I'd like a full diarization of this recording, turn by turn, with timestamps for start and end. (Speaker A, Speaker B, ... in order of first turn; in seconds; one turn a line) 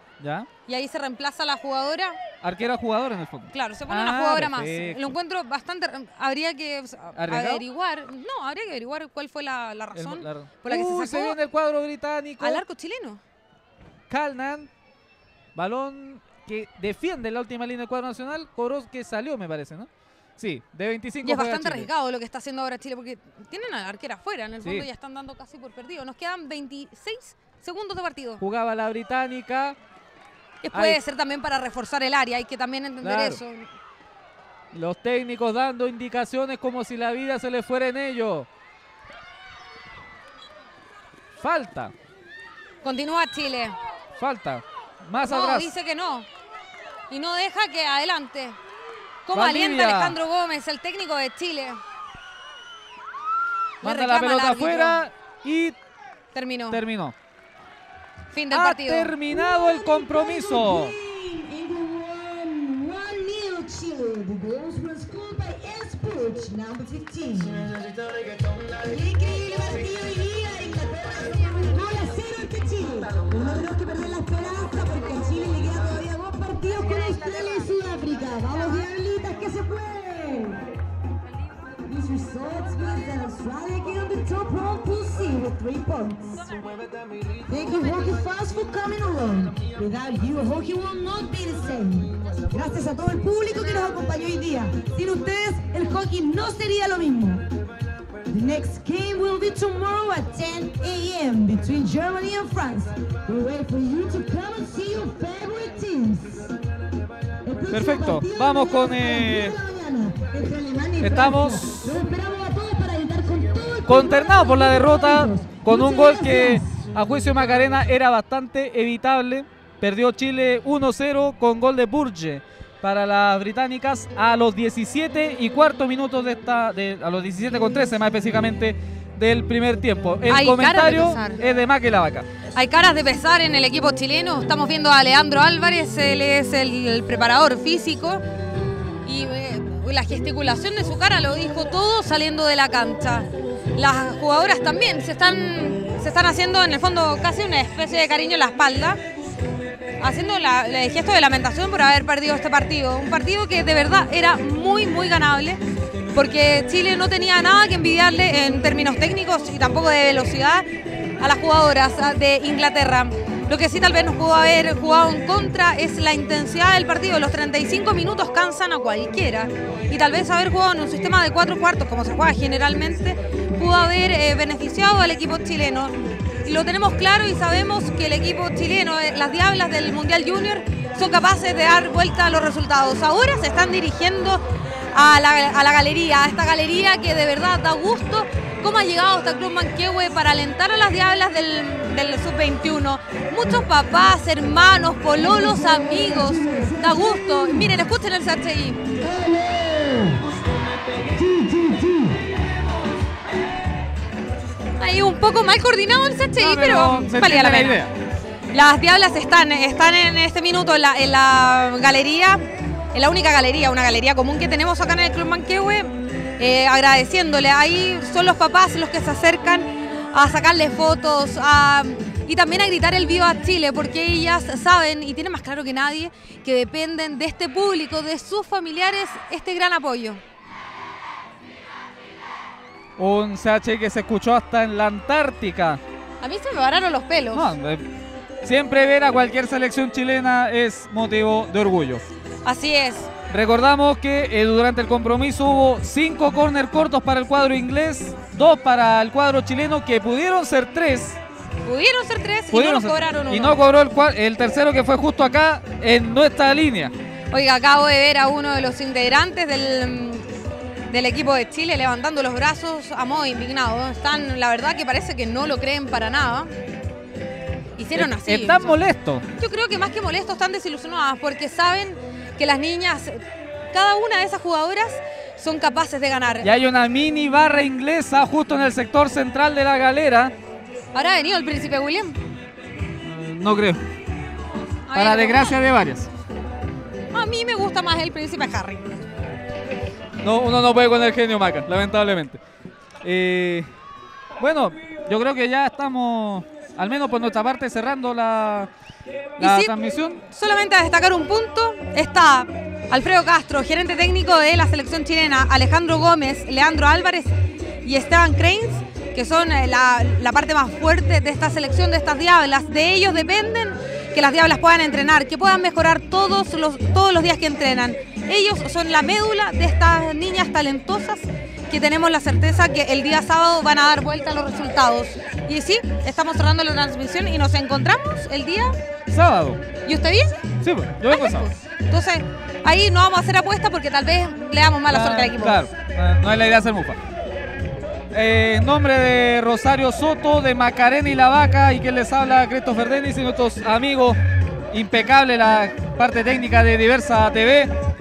Speaker A: 0.2-0.5
Speaker B: 0.7-2.2
Speaker A: 2.4-5.0
Speaker B: 3.5-11.4
Speaker A: 7.2-7.7
Speaker A: 9.9-12.6
Speaker B: 12.4-13.2
Speaker A: 14.1-14.7
Speaker A: 15.6-21.9
Speaker B: 21.2-28.4
Speaker A: 28.4-29.8
Speaker B: 30.6-33.7
Speaker A: 30.7-31.0
Speaker A: 33.0-33.4
Speaker A: 34.7-38.5
Speaker A: 41.4-41.9
Speaker B: 42.8-43.8
Speaker A: 44.2-45.7
Speaker B: 45.2-46.3
Speaker B: 47.1-48.6
Speaker B: 49.3-51.8
Speaker A: 49.3-50.2
Speaker B: 53.8-55.0
Speaker A: 53.8-55.8
Speaker B: 56.3-56.8
Speaker A: 56.7-57.2
Speaker B: 58.3-59.2
Speaker A: 58.5-61.0
Speaker C: 59.4-67.8
Speaker C: 68.8-80.7
Speaker C: 81.8-86.6
Speaker B: 86.5-86.8
Speaker C: 87.4-97.5
Speaker C: 98.3-106.5
Speaker C: 107.4-116.8
Speaker A: 107.7-109.6
Speaker A: 111.0-112.0
Speaker A: 113.9-132.3
Speaker B: 130.3-131.4
Speaker B: 132.6-138.2
Speaker B: 139.0-149.0
Speaker B: 150.0-155.6
Speaker B: 156.1-160.7
Speaker B: 161.2-198.9
Speaker C: 195.4-197.6
Speaker C: 199.0-200.2
Speaker C: 201.0-202.2
Speaker B: 204.8-207.9
Speaker A: 206.4-207.9
Speaker B: 208.5-230.2
Speaker A: 233.0-235.8
Speaker B: 236.2-237.5
Speaker A: 237.3-237.9
Speaker A: 238.4-242.1
Speaker B: 242.4-243.1
Speaker A: 243.3-251.2
Speaker B: 251.6-253.6
Speaker A: 252.5-256.9
Speaker B: 257.3-260.3
Speaker B: 260.9-266.5
Speaker B: 267.8-268.8
Speaker A: 267.9-269.3
Speaker B: 269.4-276.5
Speaker A: 276.4-280.3
Speaker B: 280.9-282.2
Speaker A: 283.0-283.8
Speaker B: 284.9-285.6
Speaker A: 284.9-286.1
Speaker B: 287.1-288.9
Speaker A: 290.2-292.4
Speaker A: 293.0-293.7
Speaker A: 294.4-298.7
Speaker A: 299.4-300.2
Speaker B: 299.4-307.3
Speaker B: 307.8-328.8
Speaker A: 329.1-329.6
Speaker B: 329.9-330.5
Speaker A: 330.6-331.5
Speaker B: 331.1-335.7
Speaker A: 334.9-337.0
Speaker A: 338.1-344.2
Speaker A: 344.7-347.7